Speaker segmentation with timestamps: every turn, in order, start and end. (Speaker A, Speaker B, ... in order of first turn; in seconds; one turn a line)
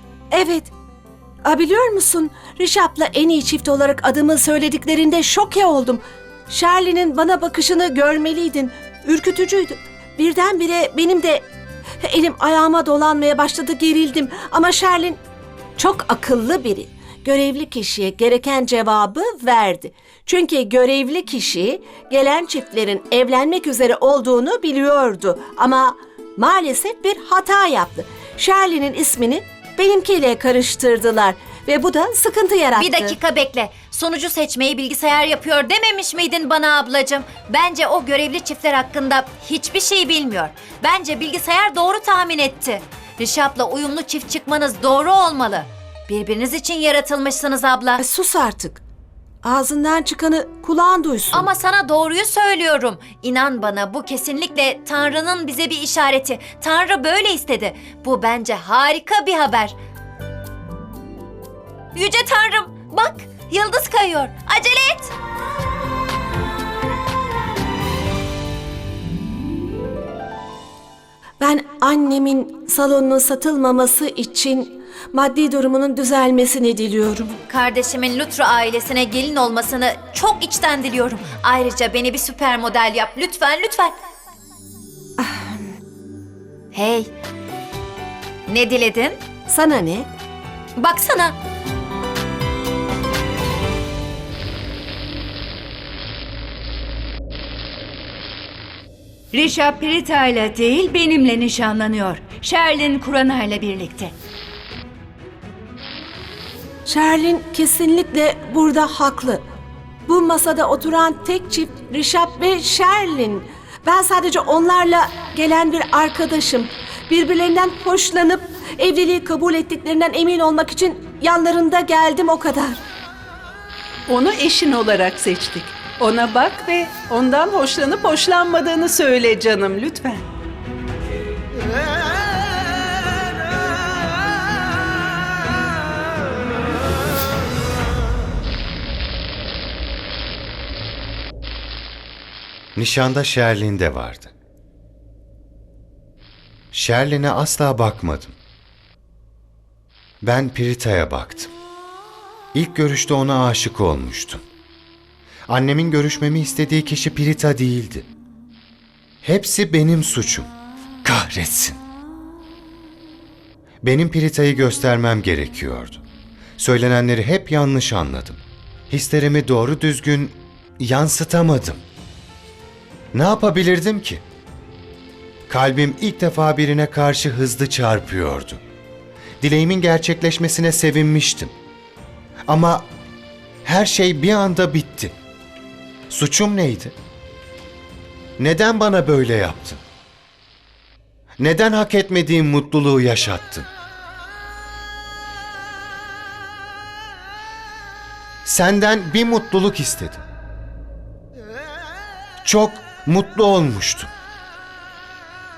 Speaker A: 0.3-0.7
Speaker A: 1.4-11.4
Speaker A: 12.0-15.2
Speaker A: 15.8-33.2
Speaker B: 32.8-48.0
Speaker A: 48.0-48.8
Speaker A: 49.4-51.5
Speaker B: 51.3-59.8
Speaker B: 61.9-65.1
Speaker A: 71.4-77.3
Speaker B: 77.5-84.0
Speaker A: 85.2-85.5
Speaker B: 86.7-87.1
Speaker B: 88.5-89.2
Speaker A: 89.5-90.1
Speaker B: 90.8-91.3
Speaker C: 99.3-104.1
Speaker A: 106.9-109.4
Speaker A: 110.1-122.8
Speaker D: 124.1-130.2
Speaker E: 142.8-144.3
Speaker E: 146.7-148.3
Speaker E: 150.2-151.5
Speaker E: 152.5-154.4
Speaker E: 155.5-158.1
Speaker E: 159.2-160.5
Speaker E: 161.1-161.8
Speaker E: 163.8-166.0
Speaker E: 166.6-171.8
Speaker E: 173.1-174.2
Speaker E: 175.5-178.6
Speaker E: 179.4-181.5
Speaker E: 182.5-182.9
Speaker E: 183.7-185.1
Speaker E: 186.1-186.9
Speaker E: 188.4-189.8
Speaker E: 191.4-193.7
Speaker E: 198.4-200.2
Speaker E: 202.4-204.1